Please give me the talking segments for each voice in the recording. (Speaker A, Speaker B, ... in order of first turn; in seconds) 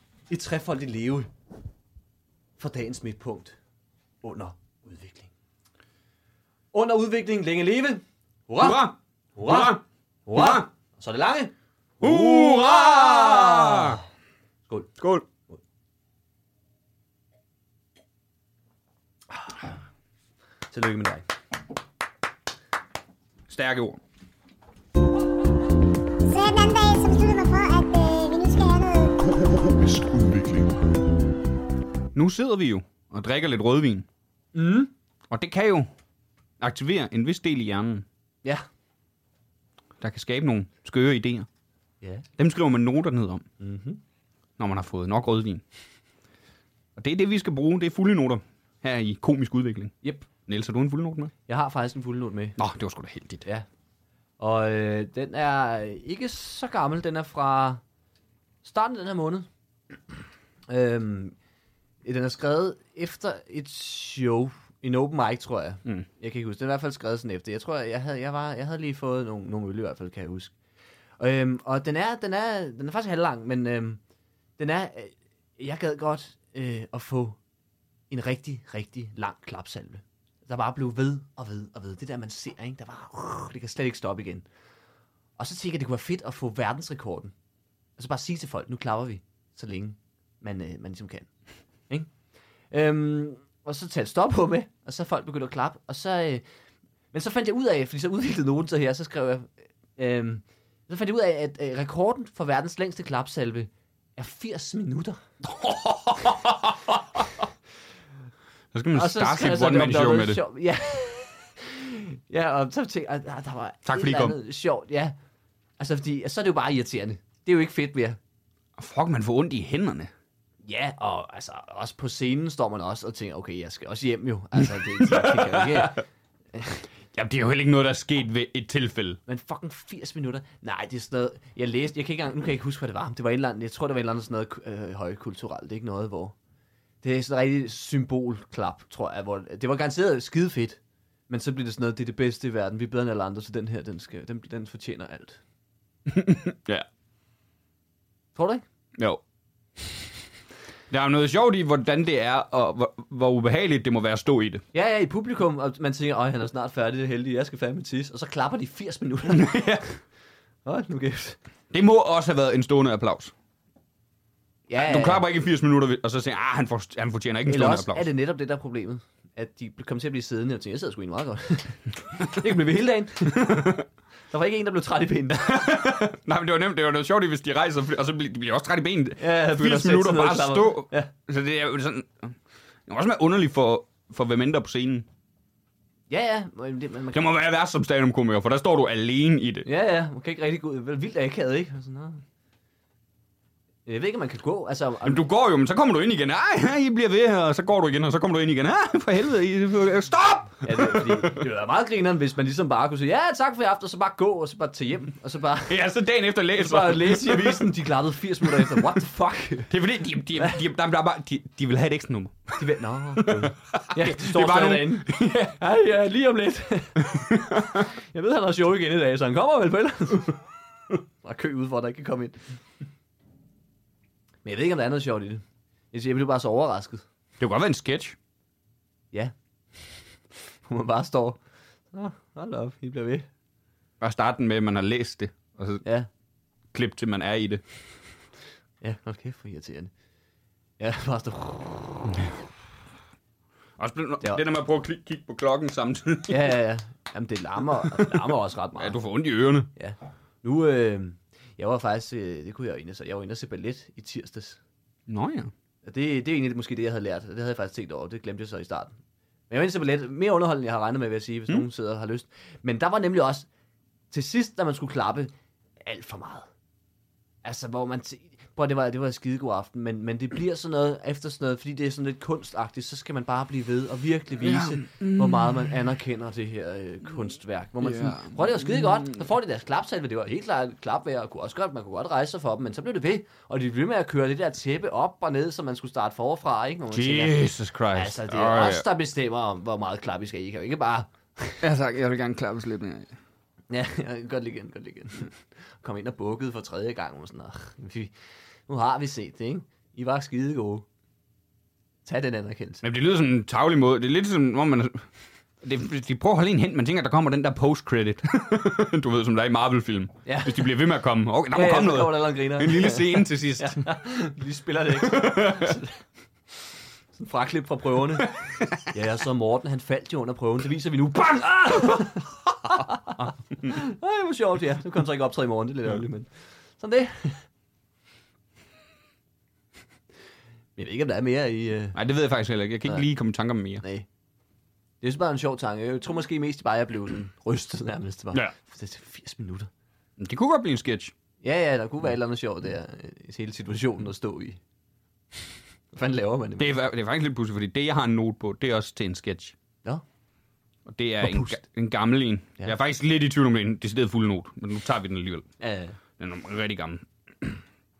Speaker A: 0.3-1.3, 2.6-3.6, 4.2-5.3, 6.7-14.0, 14.7-14.9, 20.7-21.2, 34.5-34.9, 43.6-44.0, 51.5-52.6, 54.4-57.8, 58.6-59.5, 60.7-61.4, 62.0-70.5, 71.2-74.0, 74.6-77.4, 78.1-84.5, 85.4-87.3, 88.0-91.3, 92.7-96.5, 97.1-105.2, 108.9-115.2, 115.8-118.2, 120.6-126.8, 129.3-136.3, 137.0-145.4, 148.3-148.6, 154.7-159.8, 160.7-161.4, 164.7-165.3, 167.5-175.8, 179.2-181.1, 186.1-187.3, 189.7-192.2, 193.9-195.2, 200.6-205.8, 206.6-209.7, 212.6-220.4, 221.2-222.4, 224.4-227.1, 229.1-229.9, 230.6-231.4, 231.9-233.3, 238.8-239.9, 240.8-242.2, 246.3-249.0, 249.8-254.6, 255.8-259.0, 259.5-263.5, 264.1-266.5, 267.4-291.6, 293.7-298.1, 298.7-300.9, 302.1-302.8, 310.2-310.7, 311.5-316.0, 317.1-327.5, 330.8-332.0, 333.8-334.1, 335.0-339.7, 341.4-344.6, 345.9-346.7, 351.2-351.6, 355.6-356.0
Speaker B: 8.6-9.8, 10.3-10.7, 12.0-14.0, 15.0-15.3, 23.5-24.0, 32.1-34.1, 35.3-35.9, 36.6-38.1, 40.0-41.5, 42.4-43.5, 44.6-45.6, 47.0-51.3, 52.6-53.5, 105.4-107.3, 108.7-110.4, 113.9-114.4, 118.8-120.1, 125.0-125.9, 127.1-129.2, 146.1-146.9, 150.9-154.6, 159.3-159.9, 161.7-163.3, 164.8-168.1, 173.4-173.8, 175.5-182.4, 182.9-185.1, 187.1-189.7, 195.0-201.4, 205.7-207.7, 208.6-208.8, 209.7-212.6, 213.2-215.6, 217.1-217.8, 227.4-228.2, 234.0-235.8, 236.7-237.6, 243.8-246.5, 247.8-248.2, 248.8-249.7, 255.1-255.5, 274.4-275.8, 277.8-279.2, 286.9-288.9, 291.6-293.1, 302.8-305.1, 305.6-313.9, 315.0-315.8, 318.4-318.8, 331.9-333.8, 340.2-341.1, 346.6-349.6, 350.9-355.5, 356.2-357.6
Speaker C: 26.2-30.8